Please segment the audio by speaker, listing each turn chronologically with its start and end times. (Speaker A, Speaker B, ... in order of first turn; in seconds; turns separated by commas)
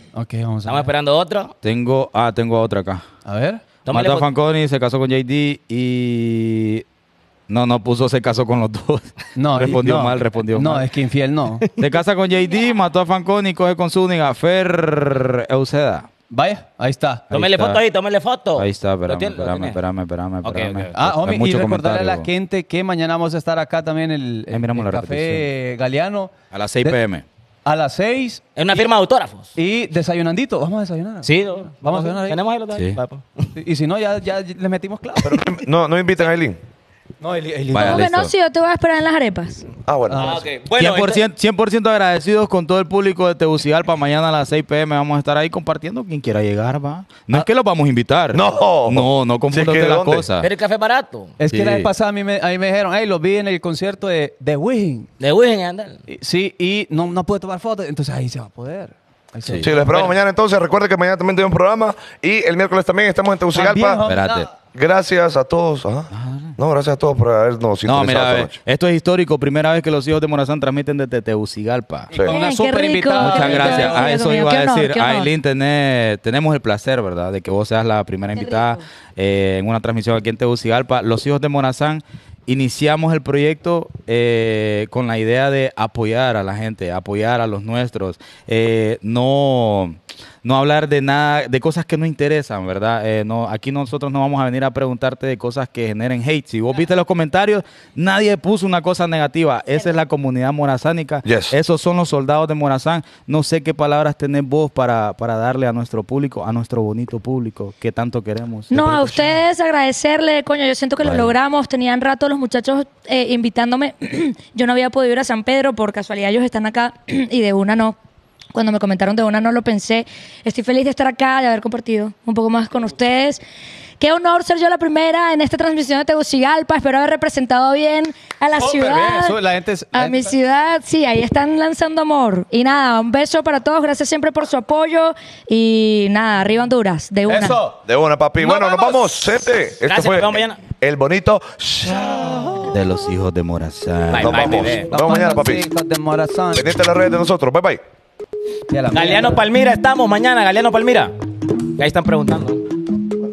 Speaker A: 0.1-0.9, Speaker B: 0.7-1.5, Speaker C: 1.6-3.0, Speaker A: 3.2-3.6, Speaker B: 3.9-4.3, Speaker C: 3.9-6.8, Speaker C: 7.5-10.9, Speaker A: 9.3-11.7, Speaker C: 11.8-16.1, Speaker A: 16.3-17.3, Speaker C: 17.3-17.8, Speaker B: 17.3-19.8, Speaker C: 18.6-22.2, Speaker B: 20.4-20.9, Speaker A: 20.9-27.0, Speaker C: 24.5-25.5, Speaker C: 26.5-27.2, Speaker A: 27.6-28.8, Speaker B: 28.6-29.5, Speaker A: 29.6-32.4, Speaker B: 31.2-33.5, Speaker C: 32.7-33.0, Speaker A: 33.5-35.5, Speaker D: 35.2-36.6, Speaker A: 37.2-38.0, Speaker C: 37.7-38.3, Speaker E: 37.7-39.7, Speaker D: 39.9-40.4, Speaker A: 40.1-40.5, Speaker B: 40.2-41.2, Speaker C: 40.8-50.5, Speaker D: 48.3-50.2, Speaker B: 50.4-51.3, Speaker A: 51.4-55.1, Speaker C: 51.5-51.9, Speaker B: 55.2-56.0, Speaker A: 56.1-59.9, Speaker D: 59.6-64.0, Speaker A: 63.5-64.5, Speaker C: 64.0-64.5, Speaker D: 64.7-68.6, Speaker C: 66.1-66.6, Speaker C: 67.8-72.1, Speaker A: 72.1-74.2, Speaker E: 72.2-75.3, Speaker C: 73.2-109.2, Speaker E: 78.3-78.8, Speaker D: 101.2-101.5, Speaker E: 108.7-118.0, Speaker C: 111.0-111.3, Speaker E: 118.5-123.4, Speaker E: 124.0-129.4, Speaker A: 128.6-130.3, Speaker E: 129.9-137.6, Speaker A: 137.3-137.8, Speaker D: 137.9-142.8, Speaker A: 138.5-139.1, Speaker B: 139.8-140.6, Speaker A: 141.9-142.8, Speaker C: 142.7-144.8, Speaker B: 144.1-144.9, Speaker D: 144.2-145.6, Speaker A: 144.9-146.7, Speaker D: 146.5-147.8, Speaker A: 148.7-149.5, Speaker B: 148.9-151.1, Speaker B: 151.8-152.6